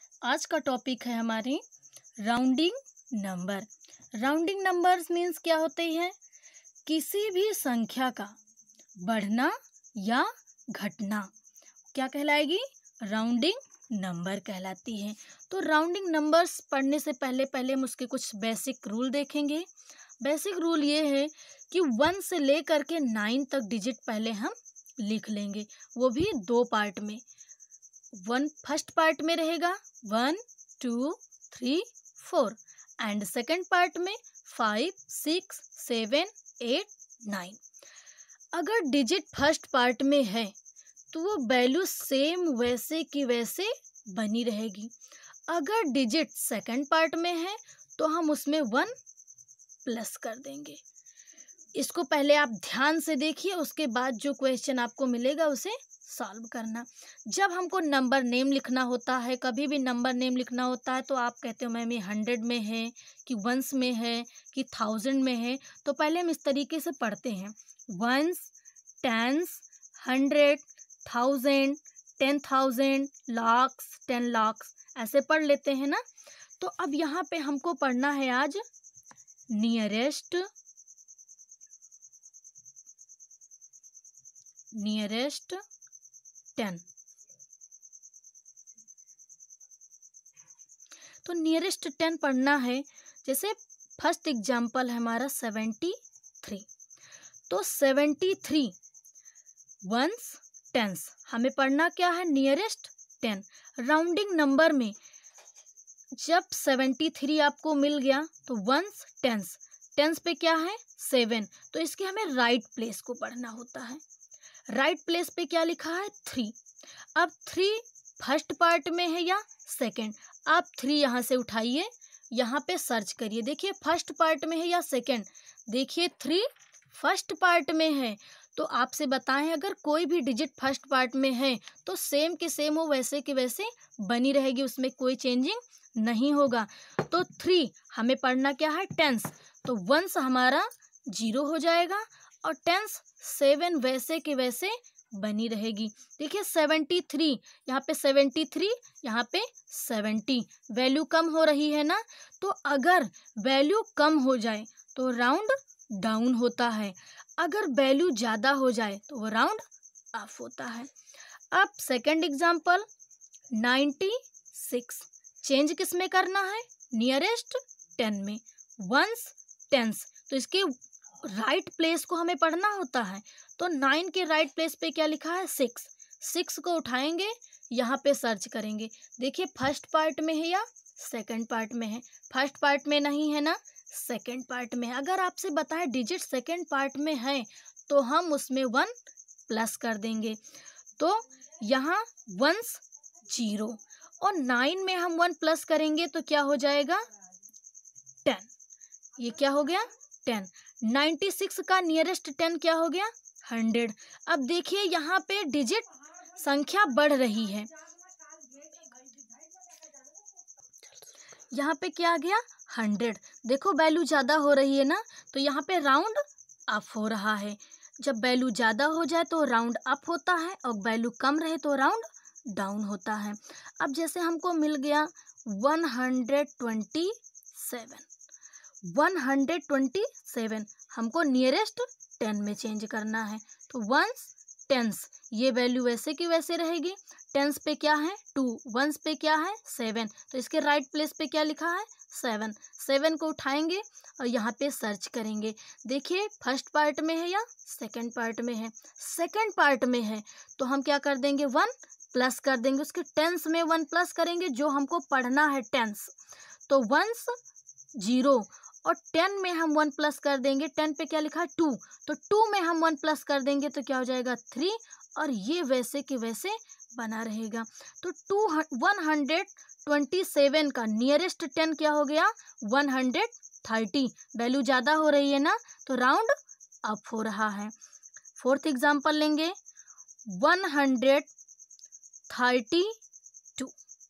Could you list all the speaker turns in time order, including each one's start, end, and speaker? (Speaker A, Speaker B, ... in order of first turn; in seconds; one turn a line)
Speaker A: 0.2-1.6
Speaker A: 2.2-6.2
Speaker A: 6.9-8.3
Speaker A: 9.0-11.3
Speaker A: 11.9-19.7
Speaker A: 20.2-27.2
Speaker A: 28.1-37.6
Speaker A: 38.5-40.5
Speaker A: 41.1-44.9
Speaker A: 45.5-48.9
Speaker A: 49.8-50.8
Speaker A: 51.7-68.5
Speaker A: 69.0-76.0
Speaker A: 76.6-78.6
Speaker A: 79.5-80.5
Speaker A: 84.7-85.6
Speaker A: 86.5-86.8
Speaker A: 91.2-96.7
Speaker A: 97.5-98.7
Speaker A: 99.8-104.9
Speaker A: 106.1-114.0
Speaker A: 114.7-116.5
Speaker A: 117.1-160.9
Speaker A: 161.5-162.8
Speaker A: 163.5-188.9
Speaker A: 189.5-190.4
Speaker A: 191.0-197.1
Speaker A: 198.2-198.5
Speaker A: 199.2-207.7
Speaker A: 211.5-228.1
Speaker A: 228.8-256.1
Speaker A: 256.7-257.4
Speaker A: 257.9-277.7
Speaker A: 278.4-279.5
Speaker A: 280.3-281.3
Speaker A: 282.3-283.0